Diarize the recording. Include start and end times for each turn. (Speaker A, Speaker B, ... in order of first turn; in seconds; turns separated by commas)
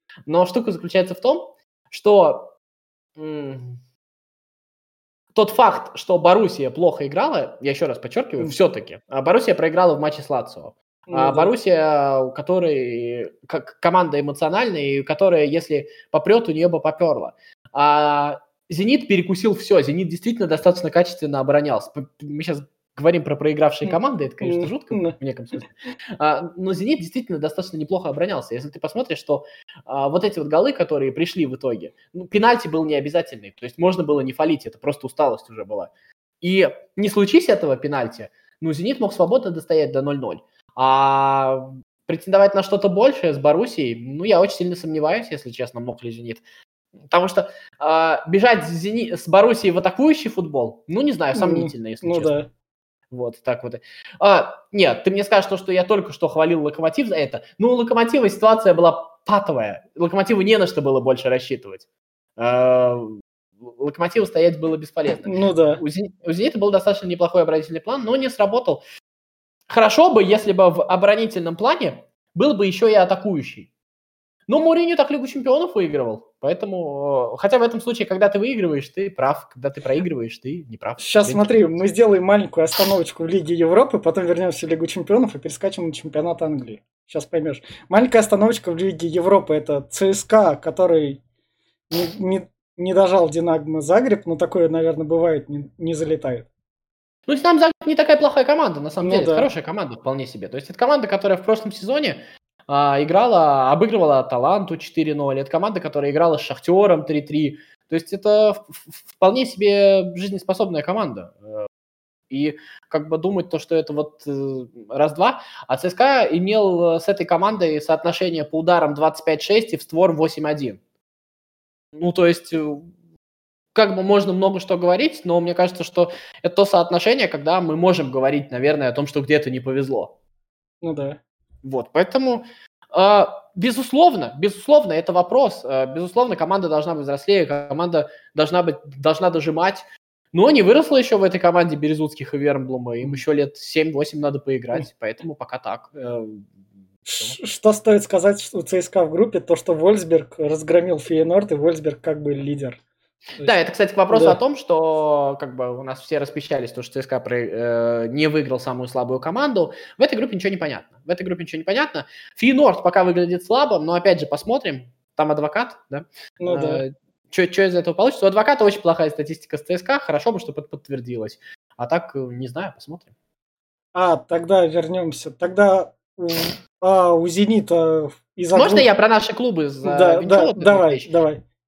Speaker A: 0.3-2.5, Speaker A: 3.2-3.8, Speaker A: 5.3-46.4, Speaker B: 11.1-11.5, Speaker B: 23.9-25.1, Speaker A: 47.1-52.4, Speaker B: 51.4-52.5, Speaker A: 53.1-61.9, Speaker A: 62.4-68.8, Speaker B: 65.2-65.8, Speaker A: 69.7-73.7, Speaker A: 74.5-81.8, Speaker B: 81.0-91.2, Speaker B: 91.9-96.5, Speaker A: 97.3-111.7, Speaker B: 99.0-99.5, Speaker A: 112.3-120.8, Speaker A: 122.0-122.9, Speaker A: 123.7-130.2, Speaker B: 130.8-131.2, Speaker A: 131.6-147.4, Speaker B: 147.1-152.8, Speaker A: 153.4-173.1, Speaker B: 154.1-154.4, Speaker B: 166.4-166.8, Speaker B: 173.9-178.9, Speaker A: 178.5-181.1, Speaker B: 179.8-181.4